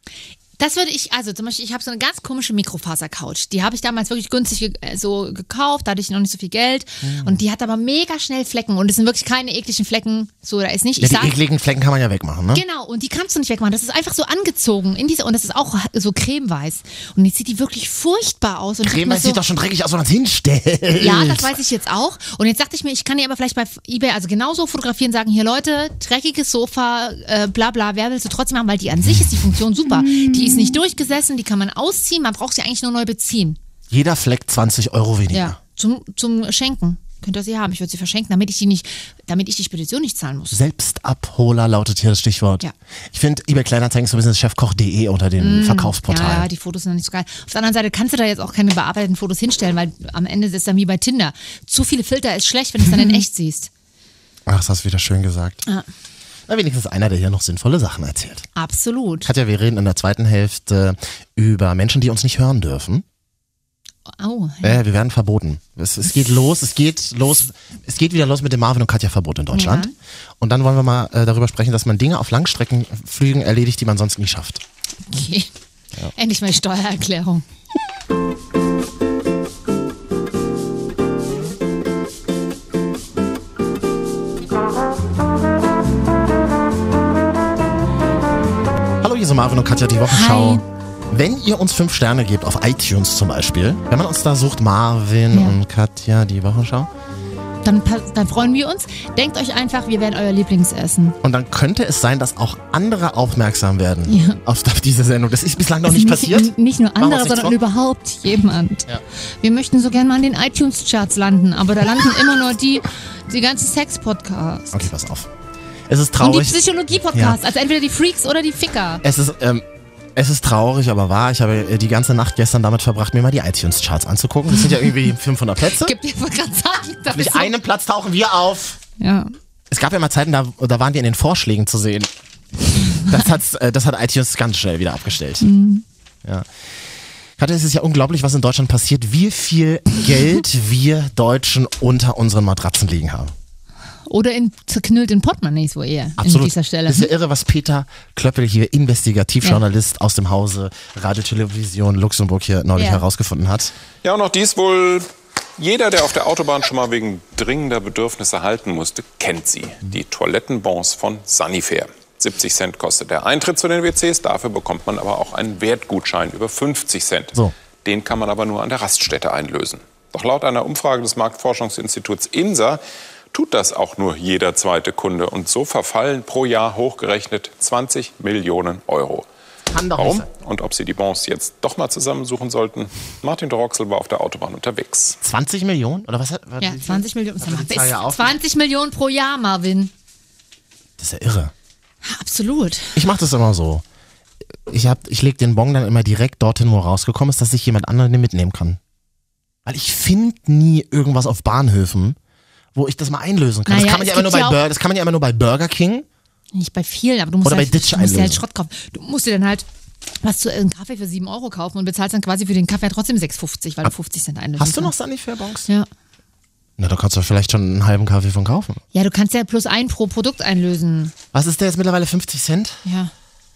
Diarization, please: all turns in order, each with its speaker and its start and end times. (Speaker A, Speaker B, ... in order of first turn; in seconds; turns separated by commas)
Speaker A: 0.6-11.3, Speaker B: 7.0-7.4, Speaker B: 11.0-12.6, Speaker A: 12.5-19.4, Speaker B: 18.8-21.5, Speaker A: 21.0-33.6, Speaker B: 33.9-35.6, Speaker A: 35.3-40.6, Speaker B: 40.5-46.5, Speaker A: 45.4-53.7, Speaker B: 54.5-55.6, Speaker B: 56.5-58.5, Speaker A: 58.5-59.3, Speaker B: 59.2-63.0, Speaker A: 64.1-64.8, Speaker B: 64.6-69.9, Speaker A: 69.5-69.9, Speaker B: 70.4-74.6, Speaker A: 75.1-75.5, Speaker A: 76.1-77.4, Speaker B: 89.0-96.9, Speaker A: 90.1-90.6, Speaker A: 95.3-95.6, Speaker A: 97.6-101.2, Speaker B: 101.2-107.6, Speaker A: 104.1-104.4, Speaker A: 105.9-108.9, Speaker A: 109.4-114.8, Speaker B: 114.7-115.3, Speaker B: 115.9-116.6, Speaker A: 116.2-119.0, Speaker B: 117.1-117.4, Speaker B: 119.0-125.9, Speaker A: 125.7-127.5, Speaker B: 127.1-128.8, Speaker A: 129.0-129.3, Speaker B: 129.7-132.1, Speaker B: 133.1-135.4, Speaker A: 135.4-135.8, Speaker B: 137.4-143.3, Speaker A: 144.1-147.1, Speaker B: 146.2-153.7, Speaker A: 152.8-153.0, Speaker C: 154.0-179.2, Speaker B: 179.7-180.3, Speaker C: 179.9-185.2, Speaker B: 185.2-188.3, Speaker A: 186.6-189.9, Speaker B: 191.0-191.5, Speaker A: 192.0-193.0, Speaker B: 192.9-193.8, Speaker B: 194.7-198.8, Speaker B: 199.6-202.2, Speaker B: 202.7-206.1, Speaker A: 203.7-204.6, Speaker A: 206.5-209.6, Speaker B: 207.4-208.4, Speaker A: 210.2-214.9, Speaker B: 214.6-215.7, Speaker B: 216.8-218.8, Speaker A: 218.9-221.1, Speaker B: 221.3-222.8, Speaker A: 222.8-223.1